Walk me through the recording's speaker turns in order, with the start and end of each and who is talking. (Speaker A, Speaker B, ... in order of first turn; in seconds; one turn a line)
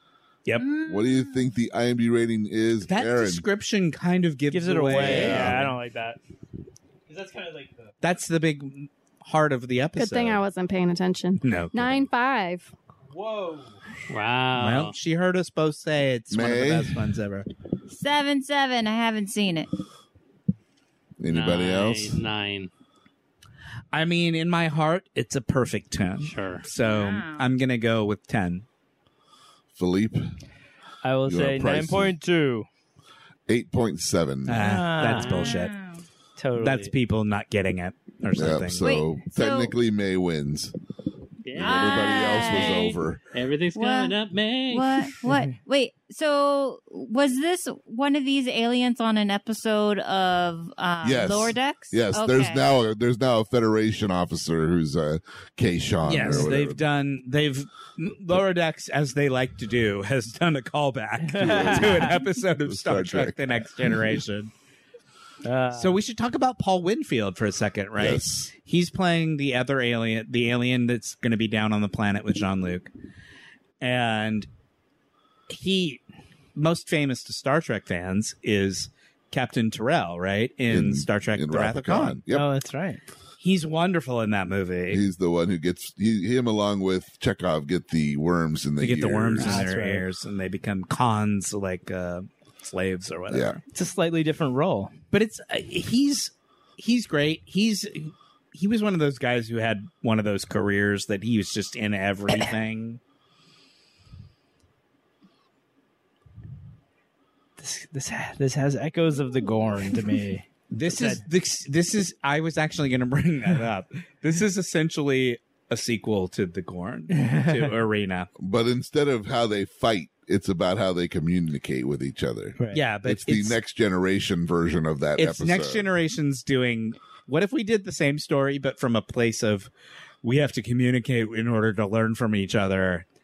Speaker A: 0.5-0.7
Speaker B: 0.6-1.4
Speaker C: 0.8-3.4
Speaker A: 2.9-5.7
Speaker D: 4.5-6.2
Speaker C: 4.9-5.7
Speaker D: 7.1-7.9
Speaker A: 8.0-10.4
Speaker E: 9.9-12.7
Speaker A: 11.4-12.1
Speaker D: 13.1-13.8
Speaker F: 14.1-14.9
Speaker A: 14.5-17.4
Speaker C: 16.3-17.1
Speaker B: 17.9-19.7
Speaker C: 21.2-22.2
Speaker F: 21.2-22.7
Speaker A: 23.9-28.6
Speaker F: 26.2-26.6
Speaker B: 26.7-27.5
Speaker C: 29.7-30.3
Speaker D: 31.0-32.7
Speaker C: 31.2-32.1
Speaker C: 33.5-34.7
Speaker A: 34.5-35.7
Speaker D: 34.6-35.4
Speaker F: 35.1-35.5
Speaker B: 35.3-36.0
Speaker D: 36.4-36.9
Speaker A: 36.6-38.8
Speaker C: 38.3-40.7
Speaker B: 38.8-39.7
Speaker F: 41.4-45.3
Speaker C: 41.5-43.2
Speaker B: 41.6-42.9
Speaker B: 43.7-44.1
Speaker B: 44.7-52.6
Speaker C: 51.0-56.8
Speaker A: 56.0-64.5
Speaker D: 61.2-62.1
Speaker C: 61.4-64.2
Speaker D: 65.4-66.0
Speaker A: 65.7-72.9
Speaker C: 68.0-68.5
Speaker A: 73.8-74.5
Speaker A: 75.5-76.0
Speaker A: 76.5-82.2
Speaker C: 80.7-82.5
Speaker D: 82.3-83.0
Speaker A: 83.4-85.0
Speaker C: 84.9-89.7
Speaker A: 88.8-93.6
Speaker D: 89.4-90.0
Speaker C: 93.3-93.6
Speaker D: 93.7-94.9
Speaker A: 95.1-103.0
Speaker D: 107.6-111.2
Speaker A: 110.7-118.3
Speaker D: 117.2-117.6
Speaker C: 118.4-125.8
Speaker A: 122.7-123.5
Speaker A: 125.2-129.7
Speaker A: 130.2-133.0